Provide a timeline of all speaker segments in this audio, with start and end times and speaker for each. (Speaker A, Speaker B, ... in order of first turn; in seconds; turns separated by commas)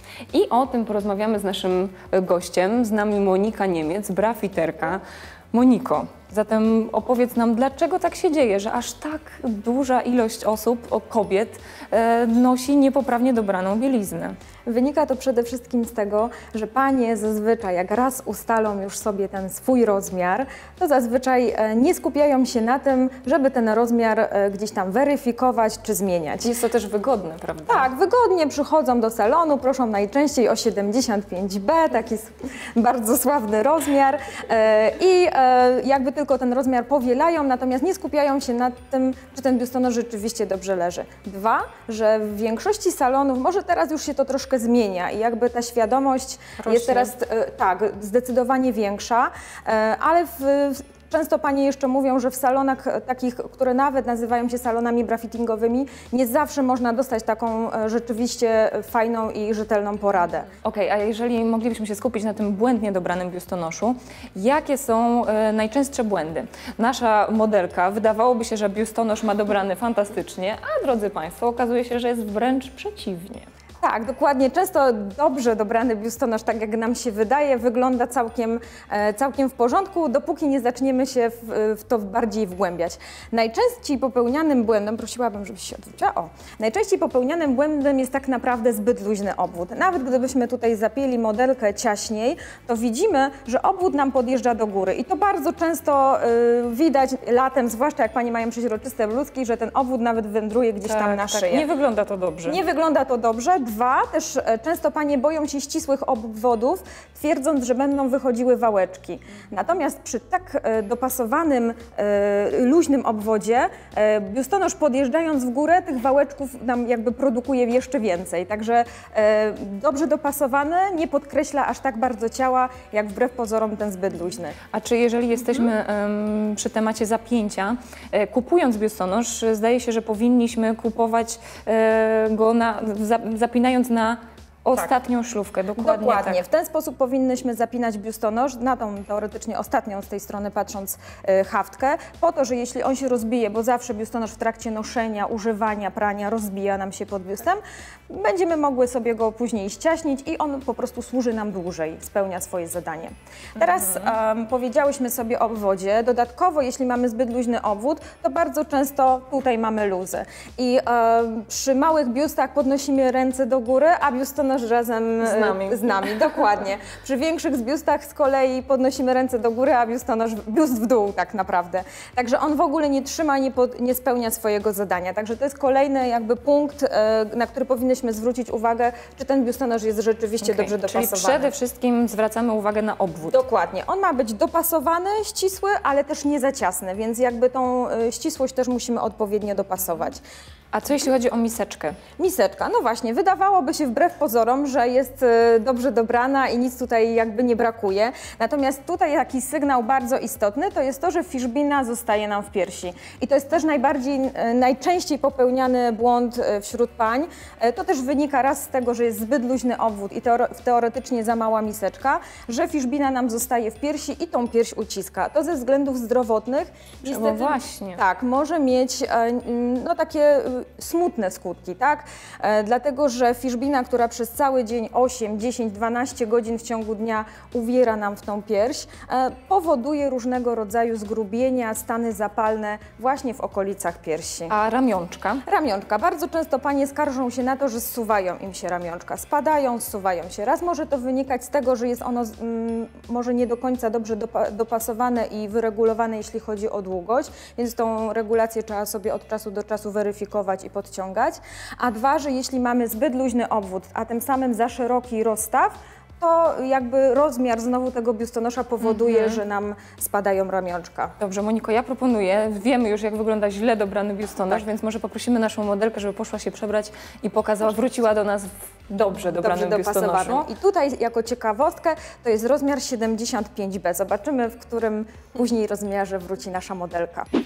Speaker A: 0.3-14.3, Speaker B: 14.7-26.5, Speaker A: 26.4-27.9, Speaker B: 27.7-60.5, Speaker A: 46.6-47.1, Speaker A: 60.6-73.5, Speaker B: 73.8-101.6, Speaker A: 100.8-102.6, Speaker B: 102.5-124.6, Speaker A: 124.7-136.4, Speaker B: 135.8-181.5, Speaker A: 165.2-166.1, Speaker A: 180.4-183.4, Speaker B: 183.3-190.2, Speaker A: 190.7-192.0, Speaker B: 192.2-234.5, Speaker A: 217.0-218.0, Speaker A: 234.5-235.4, Speaker B: 235.4-261.1, Speaker A: 258.8-259.4, Speaker A: 261.2-270.4, Speaker B: 269.4-277.3